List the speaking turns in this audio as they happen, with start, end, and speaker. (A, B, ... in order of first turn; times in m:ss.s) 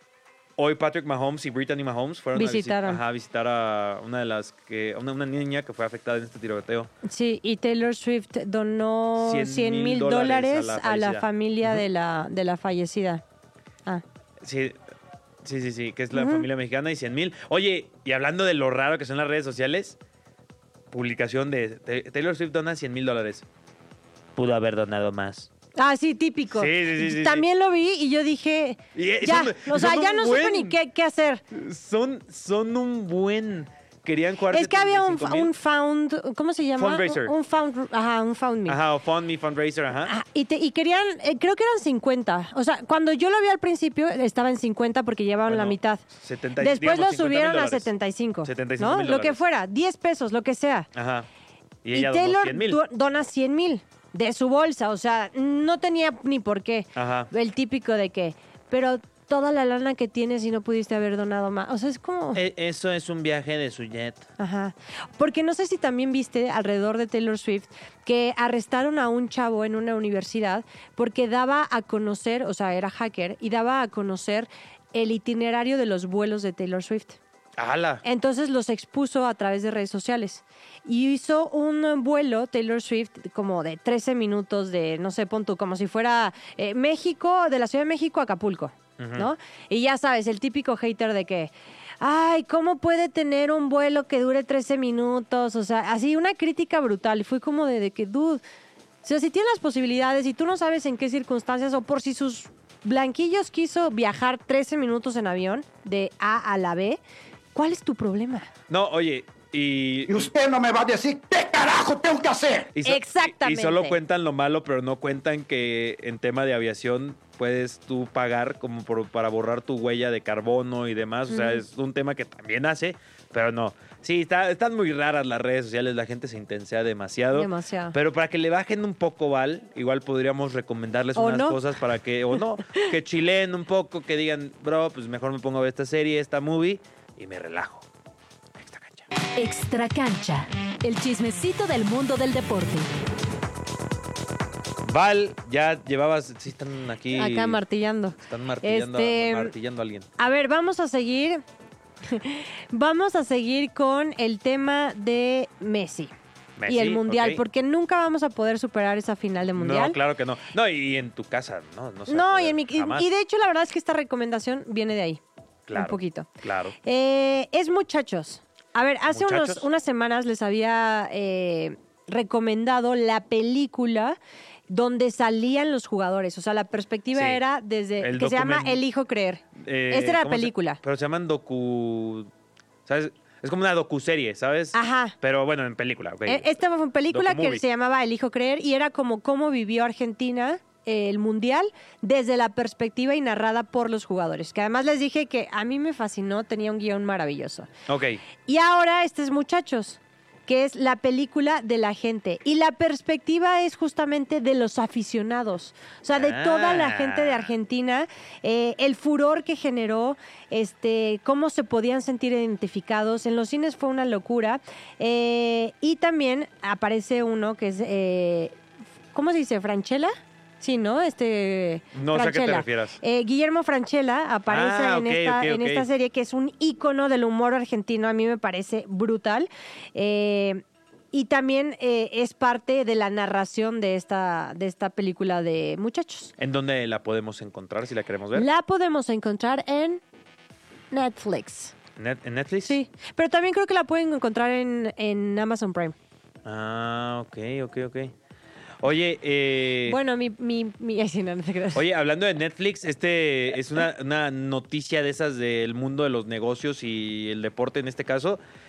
0:00.6-0:06.9 A
0:02.4-0:03.0 B
0:07.0-0:13.2 B
0:09.2-0:11.8 A
0:14.4-0:14.8 A
0:15.4-0:20.0 A
0:16.1-0:16.5 B
0:20.9-0:23.4 A
0:24.4-0:25.5 A
0:25.8-0:31.4 B
0:26.5-0:27.4 A
0:29.0-0:30.8 A
0:31.5-0:35.5 A
0:34.5-0:38.8 B
0:36.8-0:37.3 A
0:38.7-0:40.1 A
0:40.0-0:46.0 B
0:45.5-0:47.9 A
0:46.6-0:50.9 B
0:48.4-0:49.4 A
0:50.9-0:51.3 A
0:51.8-0:52.8 A
0:51.9-1:02.4 B
0:57.0-0:57.3 A
1:02.3-1:04.3 A
1:04.4-1:17.2 B
1:17.6-1:18.0 A
1:18.0-1:38.4 B
1:29.0-1:29.3 A
1:39.0-1:47.0 B
1:47.6-1:48.5 B
1:48.7-1:50.2 A
1:50.1-1:52.7 C
1:52.7-2:17.9 A
1:52.8-1:54.0 B
2:01.3-2:01.6 B
2:07.3-2:08.0 B
2:11.2-2:11.6 B
2:18.6-2:19.1 A
2:19.4-2:23.0 D
2:24.8-2:27.6 A
2:27.1-2:29.5 B
2:28.2-2:30.1 A
2:30.2-2:31.4 B
2:32.1-2:36.1 B
2:36.6-2:37.4 A
2:36.7-2:40.0 B
2:39.6-2:43.1 A
2:42.1-2:45.2 B
2:45.7-2:46.8 A
2:45.7-2:46.3 B
2:46.8-2:54.2 B
2:49.1-2:49.7 A
2:54.7-3:00.8 B
2:57.1-2:57.4 A
2:58.0-2:58.8 A
2:59.6-3:02.3 A
3:02.9-3:07.6 A
3:04.7-3:05.1 B
3:06.3-3:17.7 B
3:17.9-3:18.2 A
3:18.4-3:38.6 B
3:26.1-3:27.5 A
3:39.1-3:56.3 B
3:41.9-3:43.0 A
3:44.5-3:45.9 A
3:56.4-3:58.5 A
3:58.4-4:00.0 B
4:00.9-4:01.7 B
4:02.0-4:02.8 A
4:02.6-4:06.0 B
4:06.4-4:08.1 A
4:08.8-4:10.0 A
4:09.9-4:11.8 B
4:11.7-4:18.4 A